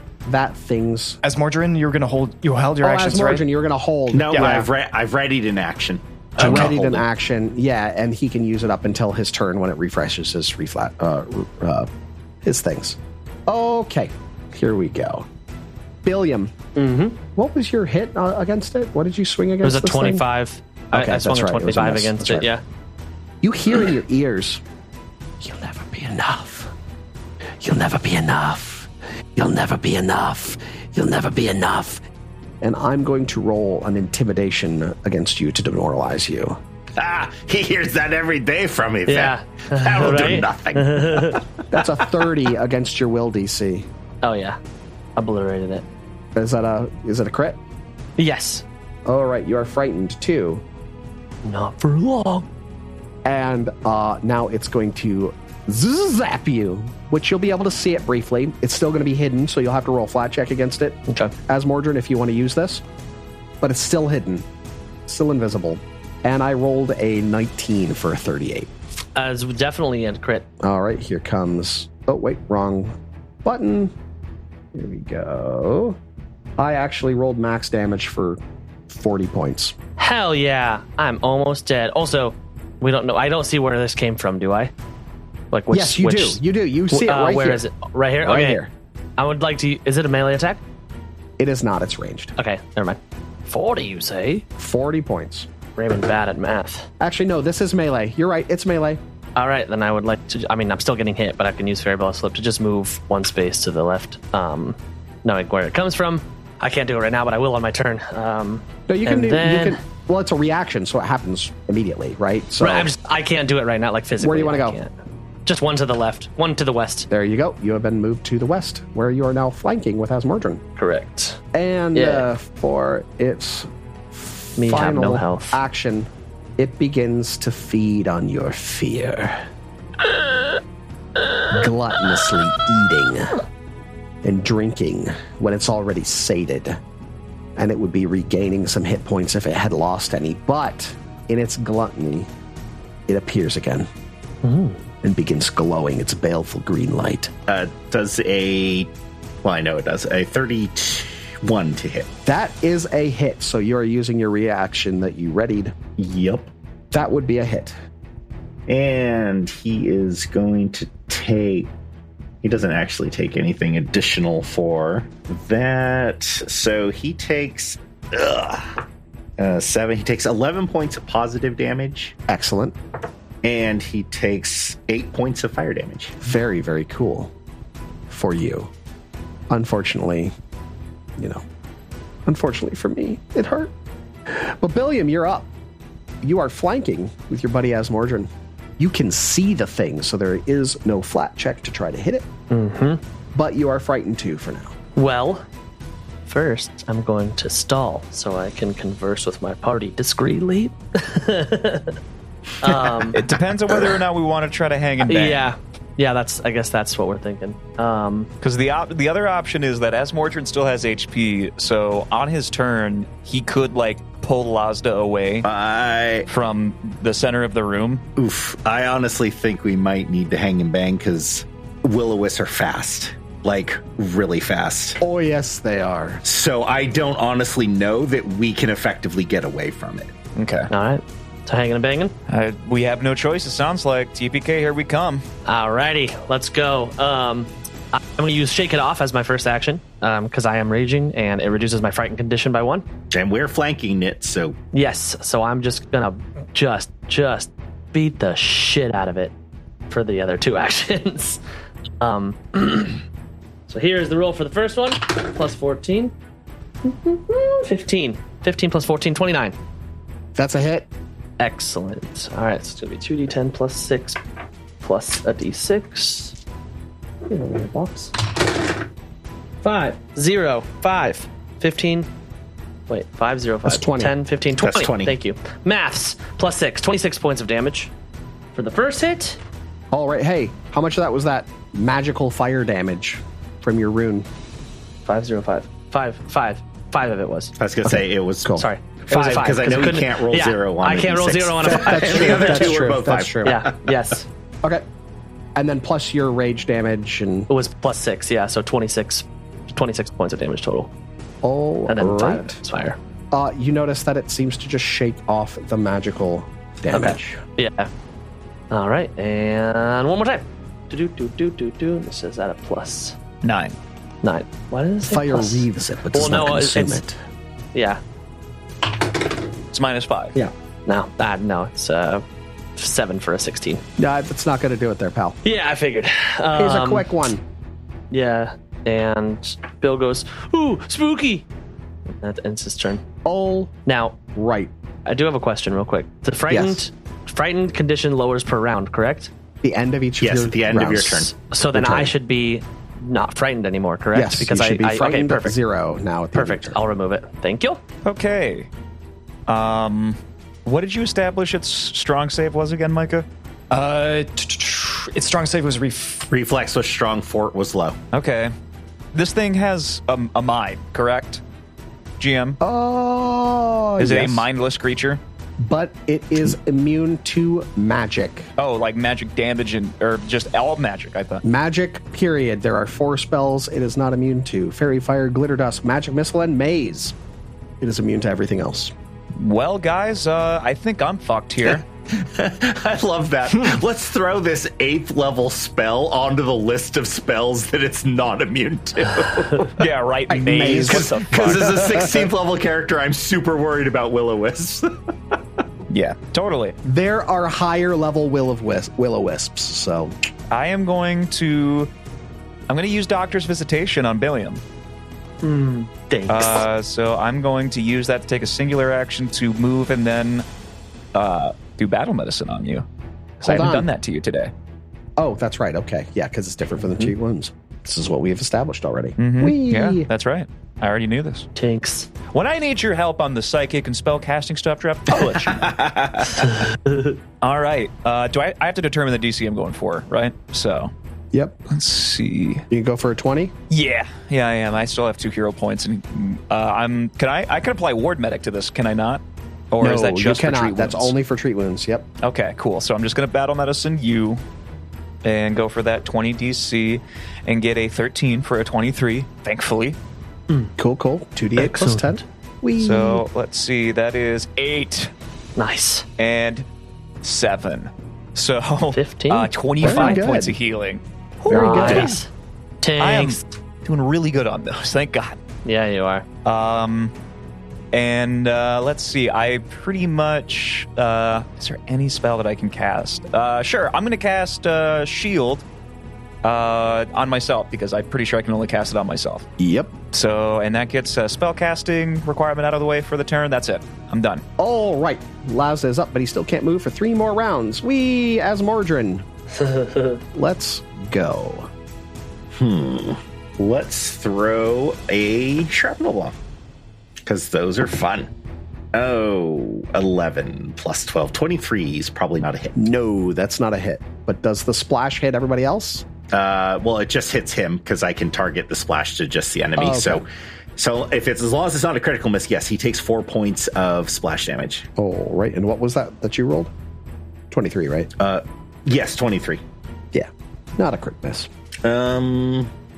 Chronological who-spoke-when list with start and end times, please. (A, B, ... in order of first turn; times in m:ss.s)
0:00.2-0:01.2 A
0:01.2-0:03.4 B
0:02.8-0:04.7 A
0:04.1-0:07.0 C
0:04.3-0:04.6 B
0:06.4-0:11.9 A
0:12.4-0:15.3 A
0:16.0-0:16.5 A
0:16.8-0:17.2 D
0:17.4-0:20.3 A
0:19.6-0:22.6 D
0:20.9-0:22.5 A
0:23.4-0:24.6 A
0:25.4-0:26.7 A
0:27.6-0:32.0 A
0:32.6-0:36.6 A
0:37.0-0:41.9 C
0:39.1-0:41.4 D
0:41.7-0:43.9 A
0:44.2-0:44.6 D
0:45.2-0:45.8 D
0:46.4-0:47.6 A
0:48.2-0:48.6 D
0:49.1-0:50.6 A
0:51.4-0:52.5 D
0:53.2-1:02.8 A
1:03.6-1:04.5 A
1:05.1-1:08.7 A
1:09.2-1:10.5 D
1:10.6-1:13.9 A
1:14.7-1:16.0 A
1:16.6-1:19.8 A
1:20.0-1:24.7 D
1:25.5-1:28.6 D
1:25.7-1:27.6 A
1:28.2-1:28.7 A
1:29.2-1:30.6 D
1:31.4-1:32.4 A
1:32.4-1:34.4 D
1:34.6-1:35.5 A
1:35.8-1:36.9 D
1:37.0-1:39.0 A
1:39.4-1:49.8 D
1:48.9-1:52.9 A
1:52.6-1:54.9 D
1:54.2-1:54.8 A
1:55.5-1:57.1 D
1:57.1-2:00.6 A
2:00.8-2:01.4 D
2:01.5-2:09.4 A
2:01.9-2:02.3 D
2:04.6-2:05.6 D
2:11.5-2:13.4 A
2:14.2-2:16.8 A
2:17.6-2:22.3 A
2:23.1-2:23.9 A
2:24.4-2:24.8 D
2:25.0-2:27.3 A
2:27.5-2:28.9 C
2:29.4-2:32.1 C
2:32.3-2:35.7 A
2:36.0-2:36.5 C
2:36.9-2:37.8 A
2:38.7-2:41.7 C
2:42.4-2:48.8 C
2:49.4-2:52.2 C
2:52.3-2:52.8 A
2:53.4-2:56.2 C
2:56.2-2:57.3 A
2:58.1-2:58.7 A
2:59.5-3:00.3 A
3:01.2-3:01.4 A
3:02.3-3:03.7 A
3:04.3-3:05.5 A
3:06.2-3:12.3 A
3:12.5-3:13.0 D
3:13.3-3:14.8 A
3:15.0-3:15.5 D
3:16.3-3:22.0 D
3:22.6-3:23.2 D
3:23.1-3:25.5 E
3:25.0-3:28.3 D
3:28.4-3:35.5 E
3:35.4-3:36.3 C
3:36.3-3:38.0 E
3:38.2-3:45.0 C
3:45.0-3:46.2 A
3:46.2-3:50.1 C
3:50.4-3:50.7 E
3:50.7-3:52.2 D
3:52.3-3:55.2 E
3:55.5-4:02.8 D
4:03.1-4:04.6 C
4:04.7-4:09.3 D
4:09.9-4:11.4 D
4:12.0-4:13.0 D
4:13.7-4:16.1 D
4:16.8-4:19.6 D
4:20.4-4:20.9 A
4:21.4-4:24.2 D
4:24.8-4:26.4 D
4:27.3-4:28.5 D
4:29.6-4:32.1 D
4:32.9-4:37.9 D
4:33.7-4:34.2 A
4:34.6-4:35.2 C
4:38.6-4:39.4 D
4:39.9-4:44.3 A
4:45.1-4:47.5 D
4:47.6-4:48.6 C
4:48.6-4:52.9 D
4:49.1-4:53.8 C
4:51.6-4:53.6 A
4:53.4-4:54.3 D
4:55.6-4:57.5 A
4:57.5-5:00.9 D
5:01.4-5:02.6 A
5:01.9-5:03.0 D
5:03.3-5:07.4 A
5:06.9-5:07.9 D
5:08.7-5:13.2 D
5:13.4-5:13.8 E
5:14.2-5:17.0 D
5:15.0-5:17.2 A
5:17.7-5:18.0 D
5:19.7-5:20.4 E
5:20.9-5:22.2 D
5:22.8-5:23.8 D
5:24.0-5:25.4 A
5:25.4-5:27.1 D
5:26.6-5:27.4 A
5:28.1-5:31.5 D
5:32.1-5:33.0 D
5:33.2-5:33.7 A
5:33.9-5:34.2 D
5:34.4-5:34.7 A
5:35.1-5:39.3 D
5:36.5-5:36.8 A
5:39.6-5:42.1 A
5:40.2-5:41.3 C
5:41.3-5:45.6 D
5:44.1-5:46.8 A
5:46.3-5:47.8 D
5:48.0-5:48.7 E
5:49.5-5:53.3 E
5:53.7-5:56.3 B
5:56.3-5:58.0 C
5:58.1-5:58.5 E
5:59.1-6:01.4 E
6:02.2-6:02.6 E
6:02.6-6:04.5 A
6:04.0-6:05.2 E
6:05.6-6:08.5 A
6:08.6-6:11.4 E
6:11.4-6:17.2 A
6:17.8-6:18.9 A
6:19.4-6:21.8 E
6:21.6-6:29.8 C
6:29.8-6:32.1 E
6:30.3-6:31.9 A
6:30.6-6:35.4 C
6:35.9-6:36.8 E
6:36.8-6:40.2 A
6:40.5-6:41.9 E
6:42.7-6:44.6 E
6:45.4-6:46.6 D
6:46.3-6:50.4 E
6:51.1-6:52.8 E
6:53.4-6:54.5 E
6:53.4-6:53.9 A
6:55.2-7:00.1 A
6:59.2-7:01.5 E
7:01.6-7:02.1 D
7:02.3-7:05.7 E
7:05.1-7:06.5 C
7:06.9-7:07.1 D
7:07.4-7:10.9 E
7:11.3-7:11.6 A
7:11.7-7:12.6 E
7:12.7-7:13.5 A
7:13.7-7:19.2 E
7:19.7-7:21.2 E
7:19.8-7:22.1 A
7:22.2-7:24.4 E
7:25.2-7:30.0 E
7:30.8-7:33.2 A
7:31.6-7:32.2 D
7:32.8-7:35.1 E
7:35.6-7:36.1 D
7:36.2-7:36.7 E
7:37.2-7:42.2 E
7:38.9-7:40.2 D
7:39.8-7:40.6 A
7:41.5-7:42.2 A
7:41.5-7:42.3 D
7:42.8-7:43.4 D
7:43.0-7:45.4 E
7:45.6-7:46.3 D
7:46.4-7:47.1 E
7:47.9-7:55.6 E
7:56.4-7:59.5 E
7:59.6-7:59.9 A
8:00.1-8:04.4 E
8:04.6-8:09.3 A
8:09.6-8:10.2 D
8:10.3-8:11.7 A
8:12.5-8:16.4 C
8:17.3-8:18.3 C
8:18.9-8:22.8 C
8:22.8-8:26.0 A
8:26.3-8:34.9 C
8:29.8-8:30.3 A
8:35.0-8:36.7 A
8:37.5-8:38.1 A
8:38.2-8:39.6 C
8:40.1-8:41.5 A
8:41.8-8:42.7 C